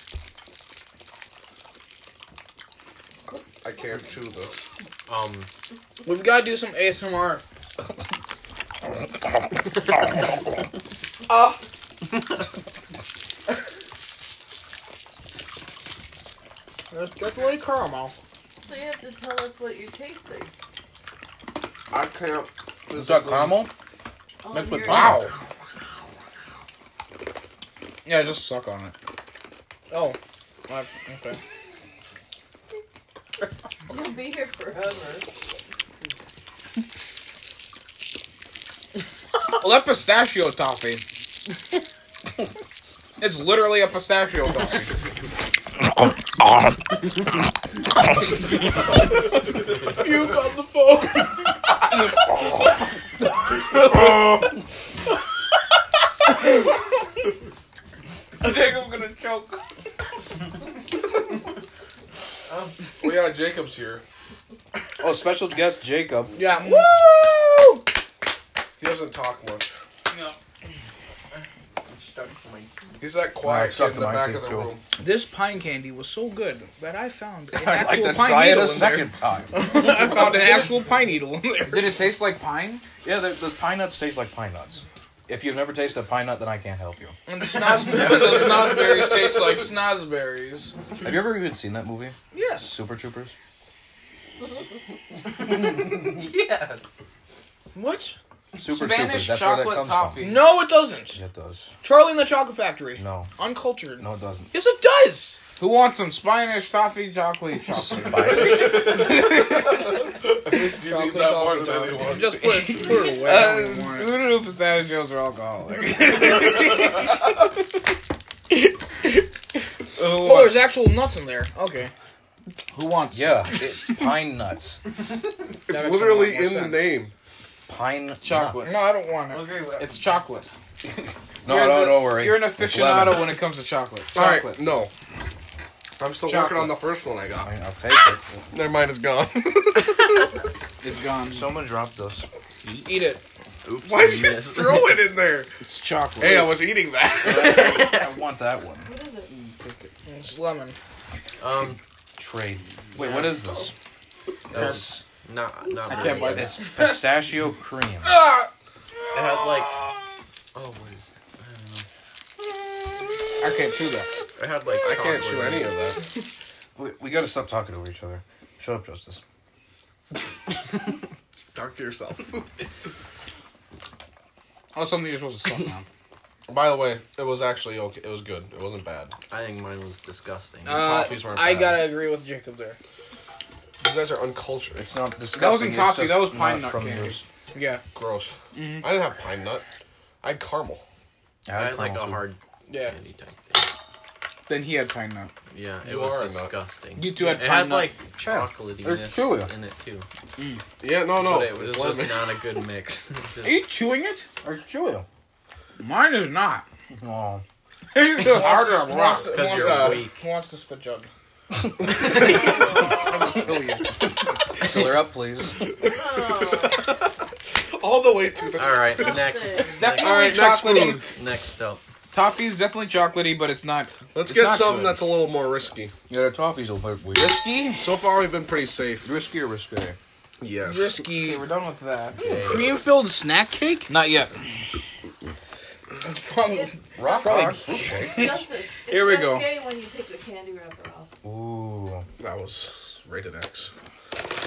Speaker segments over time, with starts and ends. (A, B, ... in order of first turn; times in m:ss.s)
0:03.6-0:04.5 A
0:05.1-0:05.5 B
0:06.0-0:07.4 C
0:11.3-0:11.6 A
0:16.9-0:18.1 C
0:18.6-0:20.5 D
0:21.9-0:23.6 A
0:22.9-0:23.7 E
0:24.4-0:25.2 D
0:24.5-0:25.3 E
0:24.9-0:25.3 F
0:24.9-0:25.2 C
0:28.0-0:28.9 F
0:29.9-0:30.2 C
0:30.7-0:31.4 C
0:33.9-0:35.3 D
0:39.5-0:41.0 F
0:43.2-0:44.9 F
0:46.0-0:46.8 E
0:49.9-0:51.5 C
0:58.4-0:59.6 F
1:03.0-1:04.0 A
1:05.0-1:06.4 E
1:06.3-1:07.8 C
1:06.6-1:06.9 F
1:08.8-1:09.7 A
1:11.9-1:12.7 B
1:13.0-1:14.8 A
1:13.4-1:14.7 E
1:15.0-1:22.0 C
1:17.5-1:19.5 E
1:18.2-1:18.6 F
1:21.6-1:22.8 F
1:23.0-1:27.2 E
1:27.3-1:30.7 C
1:27.7-1:29.6 A
1:31.0-1:33.3 E
1:32.3-1:32.7 C
1:35.5-1:36.8 B
1:37.7-1:38.2 C
1:38.5-1:40.5 E
1:38.6-1:40.5 F
1:40.2-1:41.2 C
1:41.0-1:41.7 E
1:41.8-1:45.4 C
1:43.0-1:43.3 E
1:44.0-1:44.5 E
1:45.6-1:49.7 F
1:47.7-1:49.2 E
1:48.3-1:52.8 A
1:50.6-1:54.2 C
1:52.5-1:57.1 F
2:00.0-2:00.7 F
2:00.0-2:01.9 C
2:02.7-2:03.5 F
2:03.1-2:04.8 E
2:05.6-2:07.1 A
2:05.7-2:06.8 F
2:07.7-2:08.6 E
2:08.2-2:09.0 F
2:08.6-2:09.5 C
2:09.8-2:10.5 F
2:10.8-2:13.4 E
2:11.4-2:14.6 F
2:14.1-2:14.9 A
2:16.0-2:17.5 A
2:16.2-2:16.8 F
2:17.4-2:18.3 E
2:18.5-2:20.2 A
2:20.8-2:21.6 F
2:21.2-2:22.3 E
2:22.8-2:23.1 F
2:22.9-2:23.2 C
2:23.6-2:25.0 B
2:23.8-2:25.5 A
2:25.6-2:26.6 F
2:26.2-2:27.8 A
2:27.2-2:28.9 E
2:27.4-2:27.9 B
2:28.8-2:29.3 D
2:30.0-2:30.8 C
2:31.4-2:31.8 B
2:32.2-2:33.7 E
2:33.0-2:33.4 B
2:33.4-2:33.7 D
2:34.5-2:35.0 E
2:34.5-2:34.8 F
2:35.2-2:36.6 B
2:35.9-2:36.6 F
2:36.3-2:38.1 E
2:39.1-2:39.8 B
2:40.5-2:41.8 B
2:43.4-2:44.1 F
2:44.4-2:45.8 B
2:44.8-2:46.0 A
2:46.8-2:49.2 E
2:51.5-2:52.5 A
2:54.7-2:55.8 F
2:56.5-2:59.1 A
2:59.3-3:01.0 B
3:00.6-3:01.1 F
3:00.6-3:02.1 A
3:00.7-3:02.8 C
3:03.8-3:04.8 A
3:04.8-3:07.2 E
3:05.3-3:07.2 F
3:07.5-3:07.8 C
3:07.9-3:09.6 A
3:08.5-3:08.9 F
3:10.2-3:10.8 A
3:11.4-3:12.2 E
3:11.5-3:13.7 B
3:12.7-3:12.9 C
3:14.5-3:15.3 F
3:15.5-3:20.1 B
3:15.8-3:16.5 A
3:17.0-3:17.9 F
3:18.3-3:19.5 E
3:20.4-3:20.6 F
3:20.8-3:22.4 A
3:21.1-3:23.7 B
3:23.4-3:24.2 F
3:24.4-3:25.0 E
3:25.8-3:26.6 F
3:26.9-3:27.4 E
3:27.9-3:29.8 F
3:28.2-3:31.1 C
3:29.1-3:30.2 B
3:29.4-3:30.1 A
3:32.0-3:32.3 B
3:33.1-3:33.9 F
3:34.6-3:35.6 E
3:35.8-3:37.0 A
3:35.8-3:36.8 D
3:37.5-3:39.2 A
3:38.6-3:40.5 B
3:38.9-3:39.8 D
3:39.5-3:41.0 F
3:39.8-3:41.0 A
3:41.0-3:41.8 B
3:42.1-3:45.0 F
3:44.1-3:45.9 A
3:46.1-3:47.4 E
3:47.1-3:47.9 F
3:47.8-3:49.1 A
3:49.0-3:50.0 E
3:50.4-3:51.1 A
3:50.6-3:51.4 C
3:51.1-3:52.2 F
3:52.2-3:52.7 B
3:52.3-3:53.9 C
3:53.9-3:54.3 F
3:56.0-3:57.8 C
3:56.4-4:01.1 D
3:57.0-3:58.4 E
3:57.2-3:57.8 F
3:58.9-3:59.6 F
4:01.2-4:02.0 E
4:02.2-4:03.7 A